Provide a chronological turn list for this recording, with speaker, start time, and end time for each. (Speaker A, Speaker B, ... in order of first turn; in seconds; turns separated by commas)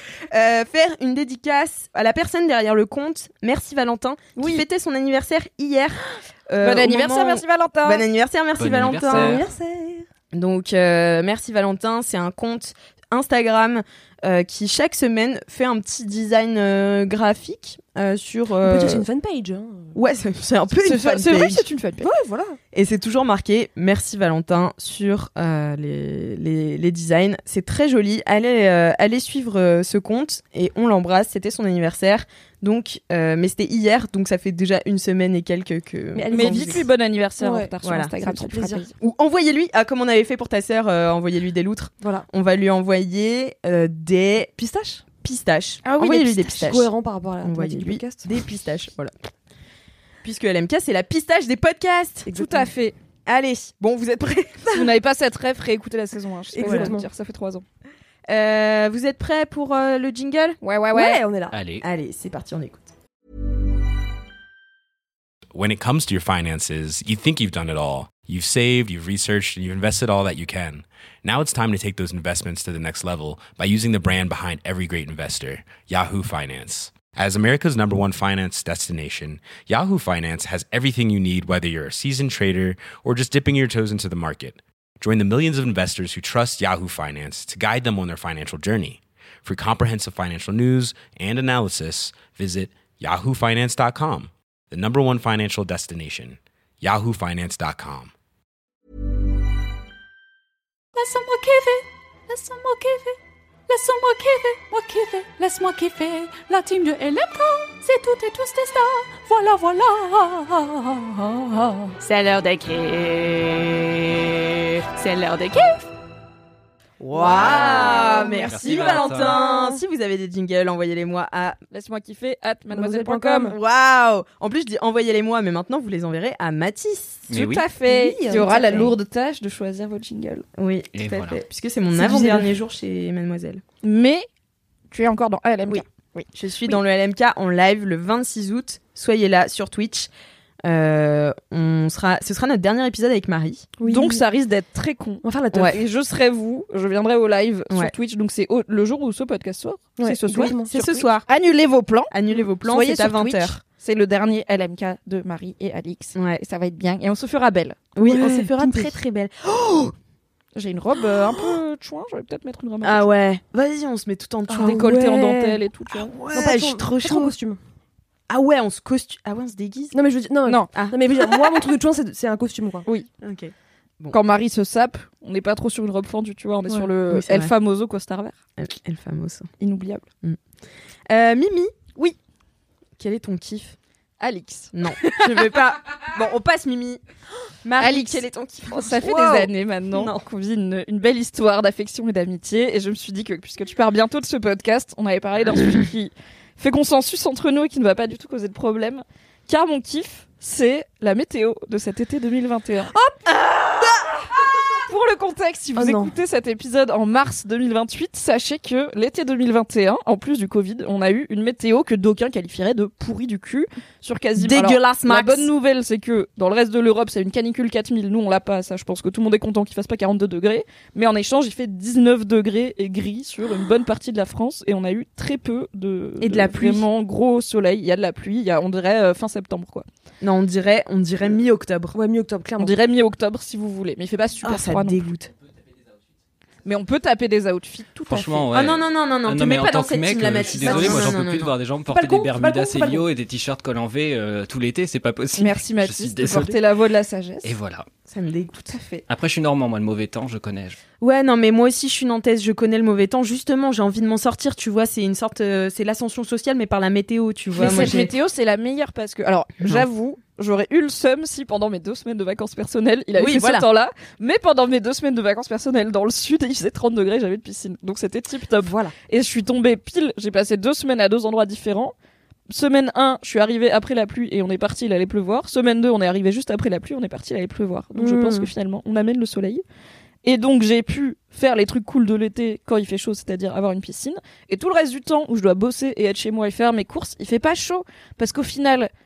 Speaker A: 0.3-9.4, Speaker B: 6.6-8.1, Speaker C: 8.6-9.4, Speaker B: 9.1-9.4, Speaker D: 9.1-10.0, Speaker A: 10.3-19.1, Speaker D: 18.6-20.0, Speaker A: 19.9-21.7, Speaker B: 20.8-22.1, Speaker D: 22.0-22.6, Speaker A: 22.7-36.8, Speaker D: 36.1-36.9, Speaker B: 36.3-38.9, Speaker D: 37.4-38.9, Speaker A: 37.8-38.1, Speaker A: 39.0-49.1, Speaker D: 46.0-48.3, Speaker A: 50.2-52.3, Speaker D: 52.3-52.7, Speaker B: 52.3-53.0, Speaker A: 53.3-54.9, Speaker B: 54.7-57.6, Speaker D: 56.5-57.1, Speaker A: 56.6-56.9, Speaker A: 58.3-60.6, Speaker B: 60.6-61.2, Speaker D: 60.9-61.6, Speaker C: 61.5-61.8, Speaker A: 61.8-62.9, Speaker E: 65.5-98.1, Speaker F: 101.0-103.2, Speaker F: 103.7-115.9, Speaker A: 117.0-121.6, Speaker B: 117.2-119.3, Speaker D: 117.5-118.2, Speaker C: 118.4-119.3, Speaker D: 119.3-119.8, Speaker B: 121.7-123.6, Speaker D: 122.7-123.6, Speaker A: 123.5-127.3, Speaker C: 127.3-127.7, Speaker B: 127.3-130.4, Speaker D: 127.9-128.9, Speaker A: 128.3-128.9, Speaker A: 130.6-133.6, Speaker C: 130.9-131.4, Speaker D: 131.9-132.5, Speaker B: 133.8-134.3, Speaker B: 134.9-136.8, Speaker A: 135.7-140.1, Speaker A: 140.6-143.7, Speaker D: 143.8-144.2, Speaker B: 143.8-152.1, Speaker D: 145.2-145.8, Speaker A: 145.5-145.8, Speaker D: 150.0-150.7, Speaker A: 150.3-151.3, Speaker A: 152.1-153.6, Speaker B: 152.6-157.8, Speaker A: 156.2-156.4, Speaker A: 157.9-159.9, Speaker D: 158.0-158.9, Speaker B: 160.6-163.1, Speaker A: 162.8-164.9, Speaker B: 164.5-166.2, Speaker D: 164.5-165.6, Speaker A: 165.9-167.3, Speaker D: 166.3-167.6, Speaker A: 168.3-169.9, Speaker D: 169.9-172.9, Speaker A: 170.7-171.3, Speaker A: 173.2-174.2, Speaker B: 174.1-178.4, Speaker A: 177.1-177.5, Speaker A: 178.6-179.5, Speaker B: 179.6-180.1, Speaker A: 181.1-181.8, Speaker A: 183.0-183.8, Speaker B: 184.2-185.6, Speaker A: 184.7-187.0, Speaker A: 187.6-190.2, Speaker B: 187.8-202.9, Speaker A: 203.7-204.0, Speaker B: 204.8-229.9, Speaker D: 205.8-206.1, Speaker A: 214.4-215.5, Speaker A: 226.2-226.9, Speaker A: 230.2-232.0, Speaker D: 231.9-232.8, Speaker B: 232.6-235.1, Speaker A: 234.4-235.3, Speaker B: 236.7-238.5, Speaker C: 238.1-246.6, Speaker A: 238.5-241.5, Speaker D: 240.6-241.2, Speaker D: 241.9-243.1, Speaker B: 245.4-247.5, Speaker C: 247.4-247.9, Speaker A: 248.1-248.8, Speaker B: 248.7-249.0, Speaker C: 249.1-250.8, Speaker A: 251.0-258.1, Speaker B: 257.6-271.9, Speaker A: 263.2-263.7, Speaker D: 268.6-268.9, Speaker B: 272.5-279.6, Speaker D: 277.9-278.5, Speaker B: 280.2-288.9